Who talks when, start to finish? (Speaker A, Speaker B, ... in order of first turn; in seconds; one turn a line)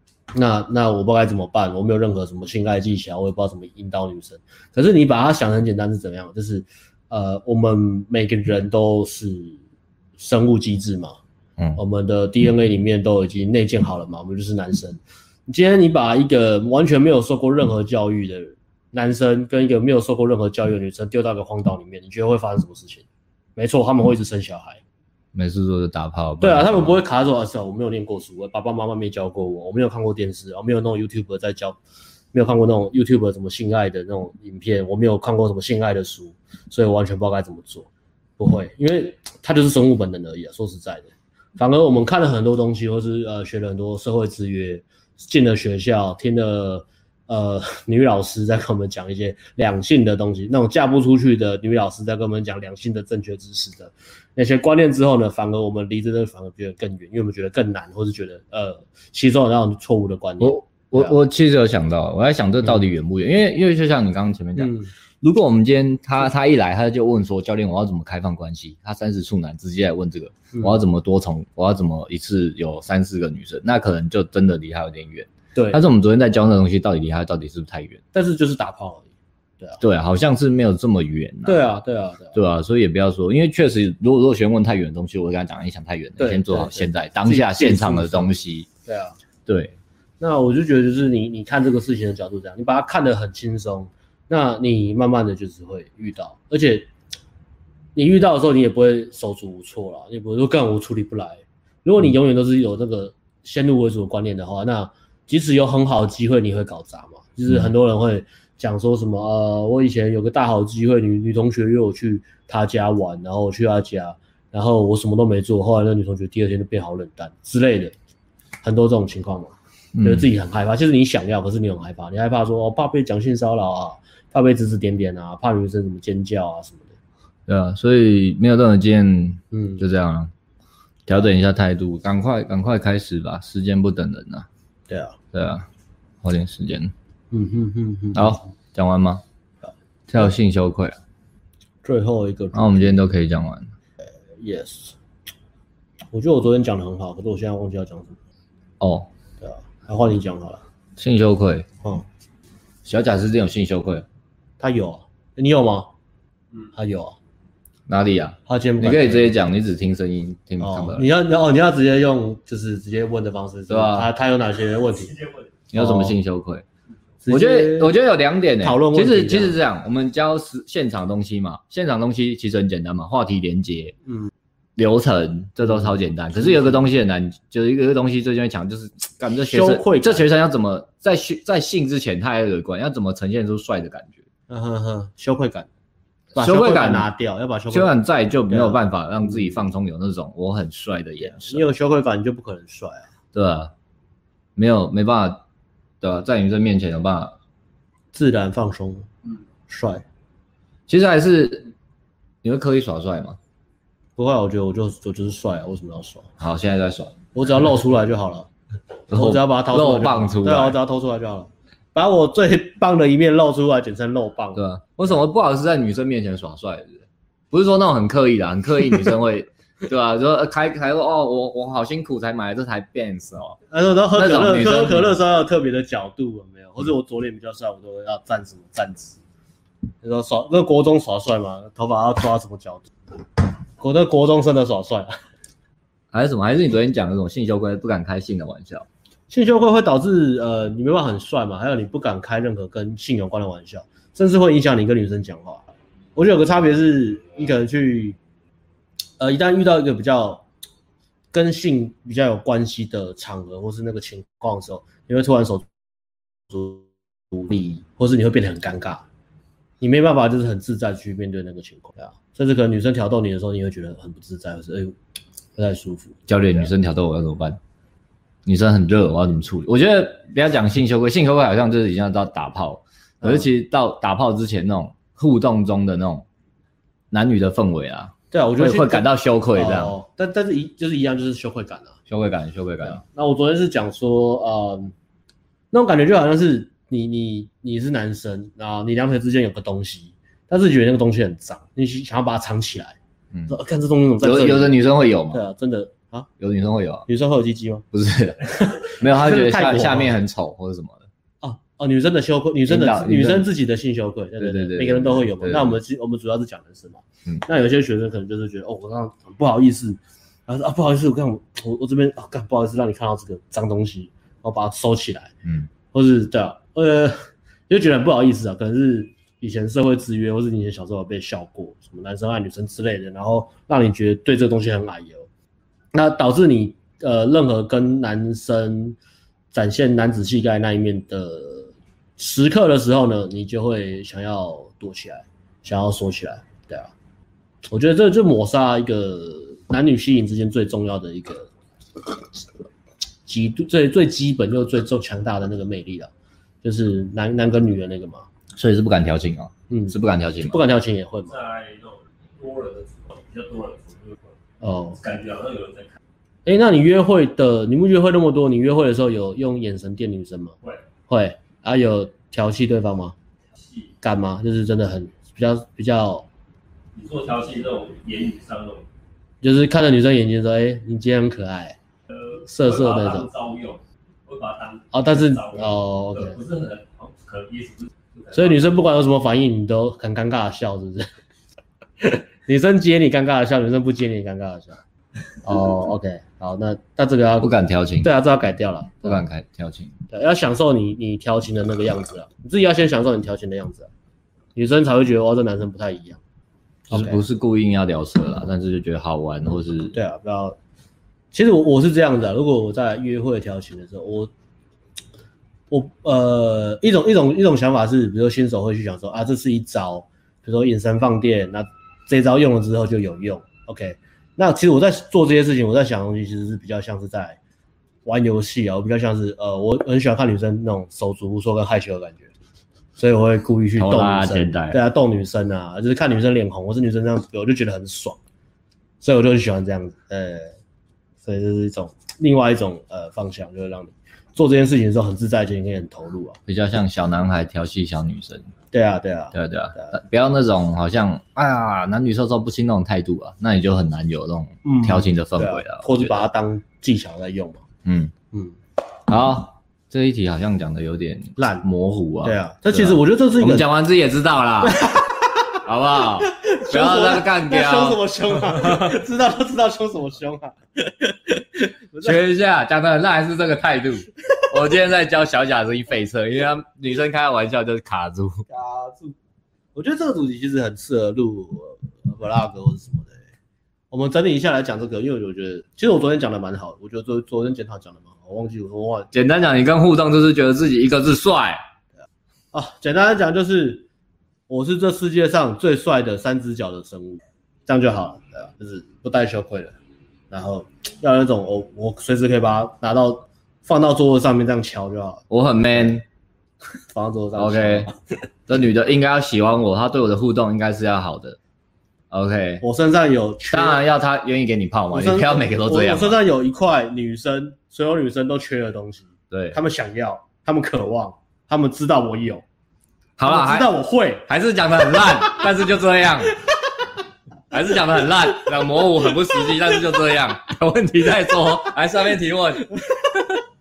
Speaker A: 0.3-9.6
Speaker A: 10.2-11.2
Speaker A: 11.8-23.1
Speaker A: 23.6-24.8
Speaker B: 25.3-26.9
Speaker A: 26.4-31.8
Speaker A: 32.3-37.9
Speaker A: 38.4-61.1
Speaker B: 60.4-78.0
Speaker A: 64.6-64.9
Speaker A: 75.6-75.8
Speaker A: 78.1-79.1
Speaker B: 79.8-81.6
Speaker A: 81.5-82.4
Speaker B: 82.3-88.7
Speaker A: 86.2-88.3
Speaker A: 88.8-89.2
Speaker B: 89.5-89.8
Speaker A: 90.2-96.9
Speaker A: 98.0-117.9
Speaker A: 118.6-126.9
Speaker B: 120.0-120.3
Speaker B: 127.5-130.3
Speaker A: 129.5-129.8
Speaker B: 131.1-134.5
Speaker A: 134.9-135.2
Speaker B: 135.3-135.7
Speaker B: 136.2-136.9
Speaker A: 137.3-138.4
Speaker B: 138.1-139.2
Speaker B: 140.1-141.0
Speaker A: 141.8-143.0
Speaker B: 142.5-143.7
Speaker A: 144.4-144.9
Speaker A: 146.1-148.2
Speaker B: 148.8-149.1
Speaker A: 149.4-150.6
Speaker B: 151.0-151.7
Speaker B: 152.8-154.1
Speaker A: 154.6-155.9
Speaker A: 156.7-157.2
Speaker B: 157.9-161.1
Speaker A: 158.5-159.3
Speaker A: 160.6-165.2
Speaker B: 163.7-164.1
Speaker B: 165.7-166.6
Speaker A: 165.7-166.1
Speaker A: 167.2-168.0
Speaker B: 167.3-173.9
Speaker A: 168.6-169.6
Speaker B: 174.8-184.2
Speaker A: 175.6-176.8
Speaker A: 179.5-180.2
Speaker A: 184.5-185.7
Speaker B: 186.3-187.1
Speaker A: 186.3-187.9
Speaker B: 187.7-191.7
Speaker A: 188.5-189.6
Speaker A: 191.2-193.1
Speaker B: 193.3-193.7
Speaker B: 194.6-195.4
Speaker B: 196.0-197.3
Speaker A: 198.1-199.1
Speaker A: 199.7-200.0
Speaker B: 200.9-201.7
Speaker B: 202.4-203.4
Speaker A: 204.2-206.3
Speaker B: 206.4-207.1
Speaker A: 207.3-208.5
Speaker B: 209.1-210.8
Speaker A: 209.1-214.6
Speaker B: 214.6-223.6
Speaker A: 223.7-229.2
Speaker B: 224.1-225.1
Speaker A: 230.0-232.9
Speaker A: 233.8-235.1
Speaker B: 236.1-238.9
Speaker A: 239.3-245.6
Speaker A: 246.2-248.2
Speaker A: 249.2-250.4
Speaker A: 251.3-255.7
Speaker A: 256.5-259.0
Speaker A: 259.8-264.9
Speaker A: 265.6-266.7
Speaker B: 266.3-267.6
Speaker B: 268.5-276.2
Speaker A: 273.2-273.5
Speaker B: 277.1-279.9
Speaker A: 278.3-281.9
Speaker B: 282.1-283.0
Speaker A: 282.8-284.9
Speaker A: 285.7-293.0
Speaker A: 293.5-296.3
Speaker B: 294.2-295.4
Speaker B: 296.4-297.1
Speaker A: 297.1-297.9
Speaker B: 297.9-301.1
Speaker A: 298.4-300.2
Speaker A: 301.4-315.3
Speaker B: 302.7-303.5
Speaker B: 304.4-305.8
Speaker B: 315.4-315.7
Speaker A: 315.9-317.2
Speaker A: 317.7-325.3
Speaker A: 325.9-329.0
Speaker A: 329.5-336.9
Speaker A: 337.7-341.5
Speaker A: 343.3-346.1
Speaker A: 346.6-348.3
Speaker B: 348.6-350.6
Speaker A: 349.7-351.4
Speaker C: 351.3-354.3
Speaker A: 354.6-355.0
Speaker C: 354.9-355.9
Speaker A: 356.5-360.6
Speaker A: 361.1-363.1
Speaker C: 363.6-363.9
Speaker A: 364.0-366.3
Speaker C: 366.9-368.9
Speaker A: 369.4-371.8
Speaker C: 372.1-378.7
Speaker A: 372.4-373.3
Speaker A: 374.9-376.4
Speaker A: 378.3-381.1
Speaker A: 382.0-384.8
Speaker A: 385.4-389.2
Speaker B: 387.4-388.1
Speaker B: 389.0-389.9
Speaker A: 390.1-393.9
Speaker A: 394.6-396.2
Speaker A: 396.9-397.2
Speaker B: 396.9-399.9
Speaker A: 399.9-400.6
Speaker A: 401.3-404.3
Speaker A: 405.7-417.4
Speaker A: 418.1-422.3
Speaker A: 423.0-428.2
Speaker B: 423.8-424.8
Speaker A: 429.0-430.5
Speaker A: 431.2-436.4
Speaker B: 436.5-438.5
Speaker A: 438.7-439.9
Speaker B: 439.3-446.2
Speaker A: 444.6-447.6
Speaker B: 447.9-448.1
Speaker B: 449.1-454.9
Speaker A: 451.4-451.6
Speaker A: 452.2-453.7
Speaker A: 454.6-455.6
Speaker B: 455.6-458.9
Speaker A: 456.2-462.2
Speaker B: 462.0-468.4
Speaker A: 468.5-469.1
Speaker A: 469.8-473.2
Speaker A: 473.9-479.1
Speaker B: 479.1-481.6
Speaker A: 482.5-483.9
Speaker A: 484.5-489.7
Speaker A: 490.3-496.0
Speaker B: 495.3-496.0
Speaker A: 496.9-497.9
Speaker B: 497.4-497.9
Speaker B: 498.5-501.4
Speaker B: 502.1-502.6
Speaker A: 502.6-503.8
Speaker B: 503.5-506.2
Speaker A: 504.9-512.4
Speaker B: 509.3-509.6
Speaker B: 513.2-513.7
Speaker A: 513.2-514.3
Speaker B: 514.3-516.4
Speaker A: 515.1-515.4
Speaker B: 517.5-522.7